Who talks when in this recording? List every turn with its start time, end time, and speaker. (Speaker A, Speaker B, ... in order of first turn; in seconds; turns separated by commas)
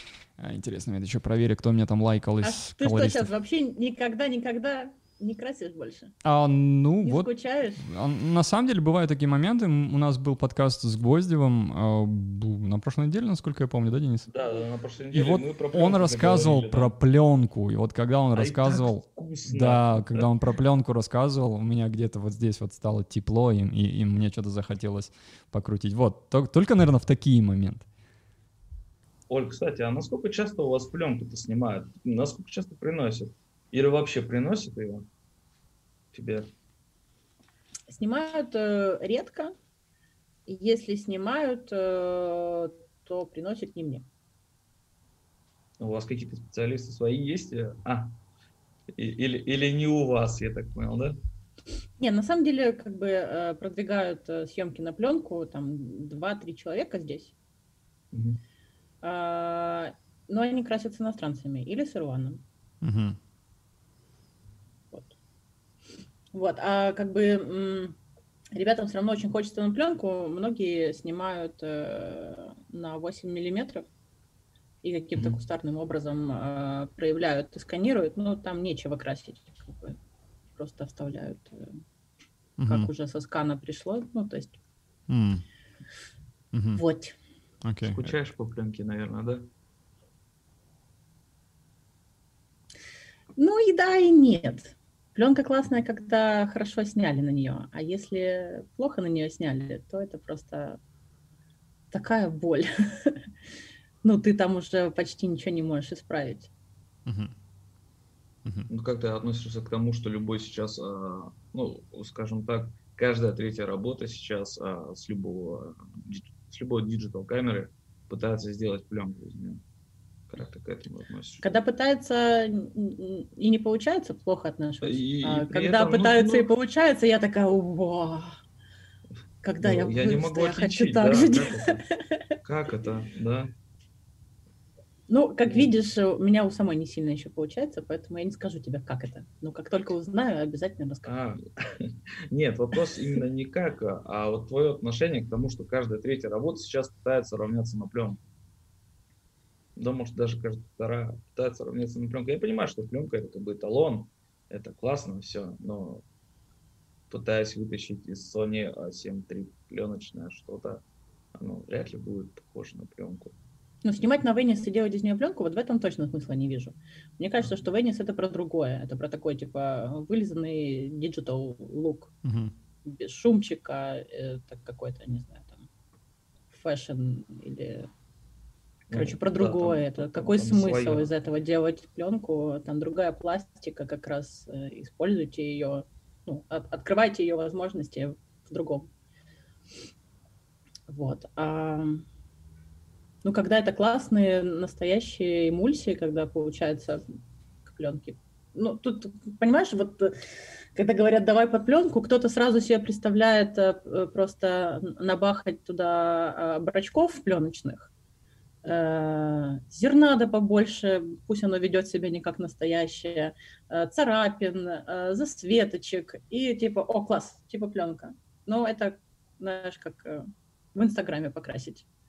Speaker A: 0.4-3.3, Speaker B: 2.4-6.1, Speaker A: 6.2-7.3, Speaker B: 7.0-7.9, Speaker A: 7.8-14.3, Speaker C: 14.3-16.9, Speaker A: 15.1-27.9, Speaker C: 18.3-20.3, Speaker C: 29.3-35.1, Speaker C: 36.1-36.5, Speaker B: 37.9-39.5, Speaker B: 40.5-44.0, Speaker C: 45.8-48.1, Speaker C: 48.9-51.2, Speaker B: 52.0-57.3, Speaker C: 58.1-58.4, Speaker B: 59.0-62.4, Speaker A: 62.8-63.2, Speaker B: 66.3-68.0, Speaker B: 68.5-73.9, Speaker B: 74.8-80.0, Speaker B: 80.5-81.8, Speaker A: 82.6-82.9, Speaker B: 82.7-84.6, Speaker A: 85.1-85.4, Speaker A: 86.5-86.8, Speaker B: 86.7-87.2, Speaker A: 87.6-88.1, Speaker C: 87.8-89.5, Speaker B: 93.3-100.8, Speaker B: 101.9-103.2, Speaker B: 104.0-106.5, Speaker A: 107.0-107.3, Speaker C: 108.7-119.6, Speaker C: 120.3-121.6, Speaker B: 121.4-128.3, Speaker C: 124.8-126.5, Speaker B: 129.4-132.3, Speaker C: 129.6-131.8, Speaker C: 132.4-133.5, Speaker B: 135.1-141.1, Speaker C: 135.5-135.7, Speaker C: 141.0-148.2, Speaker C: 149.8-156.0, Speaker C: 157.1-160.8, Speaker C: 161.3-163.3, Speaker B: 163.8-172.1, Speaker A: 172.2-172.5, Speaker B: 172.8-175.6, Speaker B: 176.5-177.9, Speaker C: 178.9-181.1, Speaker B: 178.9-188.9, Speaker B: 190.9-192.0, Speaker B: 193.2-197.1, Speaker B: 197.6-200.2, Speaker B: 200.7-207.9, Speaker B: 208.6-221.8